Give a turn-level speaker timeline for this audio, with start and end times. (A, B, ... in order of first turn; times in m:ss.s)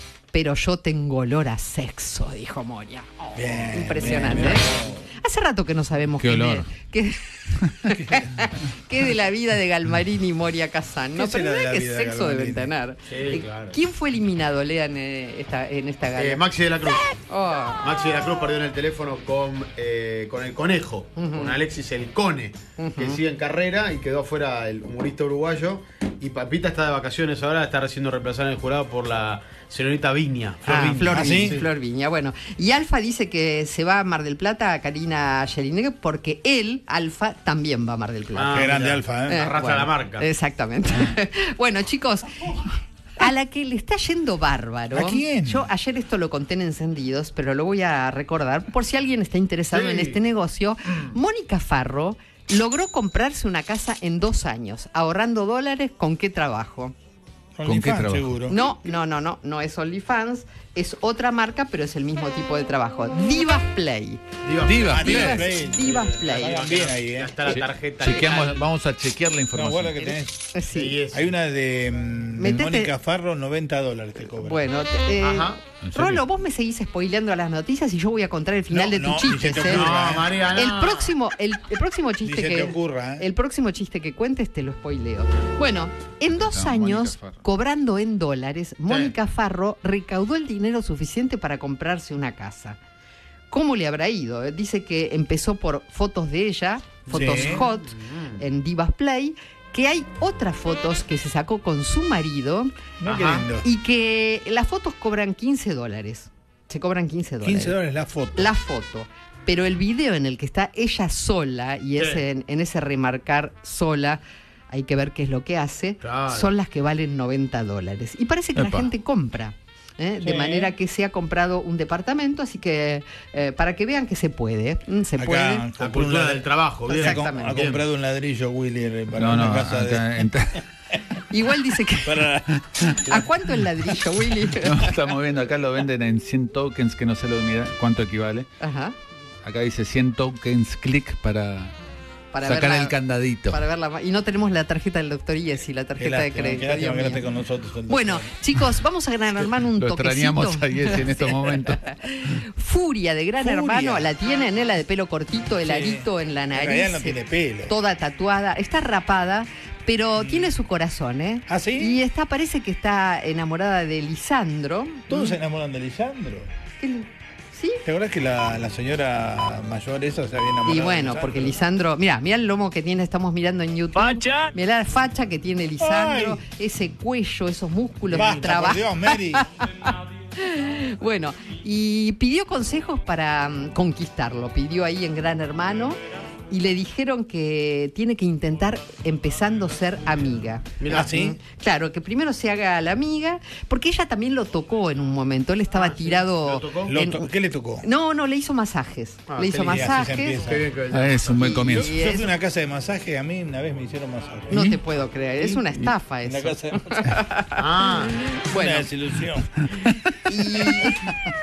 0:00.3-0:16.4 A
0:03.4-0:05.1 B
0:06.2-0:06.7 C
0:08.0-0:08.5 B
0:11.2-0:12.7 B
0:13.1-0:13.8 D
0:16.2-0:17.1 D
0:17.2-0:17.9 A
0:17.8-0:31.7 D
0:21.2-0:21.6 A
0:22.8-0:23.2 A
0:30.7-0:38.7 A
0:30.7-0:31.6 B
0:38.3-0:40.3 D
0:38.5-0:39.5 B
0:39.2-0:56.9 A
0:44.9-0:45.7 B
0:49.7-0:50.2 D
0:57.6-0:58.6 B
0:57.6-0:58.4 C
0:58.5-1:04.2 A
1:04.4-1:08.7 D
1:04.6-1:05.5 C
1:04.9-1:07.4 B
1:04.9-1:06.7 A
1:07.4-1:10.0 C
1:09.5-1:10.5 B
1:10.0-1:11.0 A
1:10.7-1:11.3 D
1:11.1-1:14.7 B
1:12.4-1:12.9 A
1:14.3-1:19.9 A
1:15.2-1:15.6 D
1:15.8-1:16.2 C
1:18.7-1:20.4 B
1:19.7-1:21.2 D
1:20.5-1:32.8 A
1:22.2-1:23.3 B
1:26.4-1:27.4 C
1:28.9-1:29.1 D
1:33.5-1:42.8 A
1:37.1-1:38.4 D
1:37.1-1:37.6 B
1:43.0-1:43.7 B
1:43.1-1:43.5 D
1:43.6-1:47.8 A
1:47.4-1:48.5 B
1:48.4-2:05.7 A
1:52.0-1:52.2 D
1:56.0-1:56.5 D
1:58.6-1:58.9 C
2:00.2-2:00.7 B
2:05.2-2:10.6 B
2:05.8-2:07.8 D
2:06.9-2:07.6 A
2:09.1-2:10.6 C
2:11.3-2:12.3 A
2:12.0-2:12.6 B
2:12.7-2:13.2 C
2:13.1-2:15.0 A
2:14.5-2:18.5 C
2:18.6-2:19.0 A
2:19.4-2:21.7 C
2:22.3-2:27.3 A
2:22.4-2:23.6 C
2:26.0-2:28.4 B
2:27.9-2:45.4 A
2:29.7-2:31.8 C
2:33.4-2:34.1 B
2:35.6-2:37.8 B
2:40.2-2:40.5 B
2:41.5-2:42.0 B
2:45.1-2:46.5 B
2:46.8-2:47.8 A
2:47.8-2:51.6 B
2:50.6-3:06.0 A
2:54.0-2:54.5 B
2:55.8-2:56.4 B
2:58.1-2:59.4 B
3:06.5-3:17.3 A
3:10.8-3:11.1 D
3:10.9-3:11.4 B
3:15.7-3:16.9 D
3:16.9-3:17.9 B
3:17.8-3:20.4 A
3:19.3-3:19.8 D
3:19.6-3:20.7 B
3:20.4-3:21.6 D
3:20.9-3:22.0 C
3:21.3-3:22.3 A
3:21.6-3:24.8 B
3:24.5-3:28.9 A
3:24.5-3:24.8 C
3:25.4-3:25.9 C
3:26.2-3:27.2 B
3:27.6-3:28.2 D
3:28.5-3:29.6 B
3:30.2-3:31.1 A
3:30.6-3:30.9 C